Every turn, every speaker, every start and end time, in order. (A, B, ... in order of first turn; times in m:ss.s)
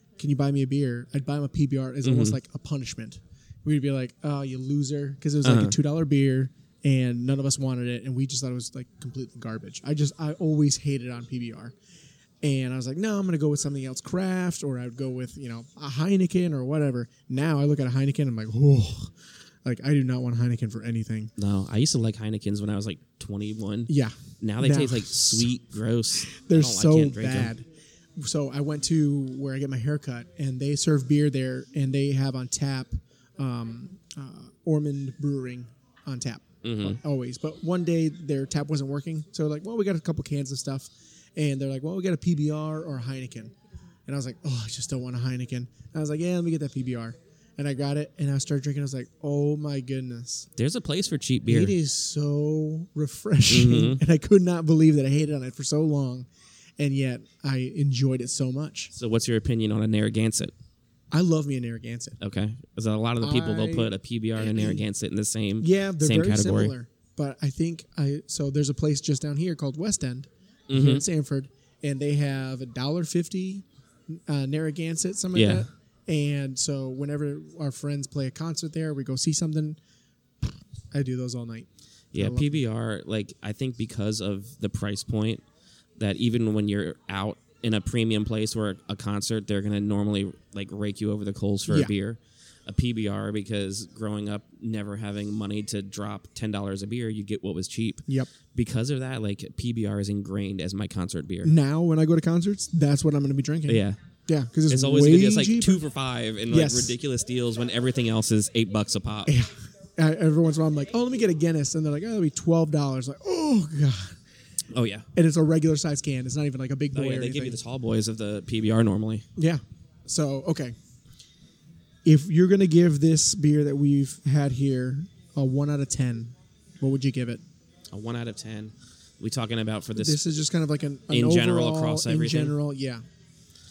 0:00.2-0:11.8 A
0:02.0-0:02.4 B
0:05.4-0:05.8 B
0:12.4-0:21.3 A
0:21.4-0:27.5 B
0:23.9-0:25.5 A
0:26.2-0:27.7 A
0:28.2-0:43.5 A
0:36.6-0:37.0 B
0:44.1-0:50.5 A
0:50.6-0:51.7 B
0:51.5-0:58.9 A
0:53.5-0:54.0 B
0:58.9-1:00.5 B
1:01.1-1:02.2 A
1:02.2-1:06.8 B
1:03.2-1:04.8 A
1:05.6-1:19.8 A
1:10.7-1:11.0 B
1:15.3-1:15.7 B
1:20.4-1:22.5 A
1:22.1-1:25.4 B
1:26.0-1:41.5 B
1:31.7-1:31.9 A
1:41.4-1:45.8 A
1:43.7-1:44.0 B
1:44.7-1:49.4 B
1:46.5-1:47.0 A
1:49.3-1:54.2 A
1:54.7-1:55.1 B
1:55.2-1:57.6 A
1:56.9-1:59.3 B
1:59.4-2:00.7 A
2:02.0-2:07.4 A
2:07.9-2:10.4 B
2:10.0-2:13.0 A
2:11.1-2:12.6 B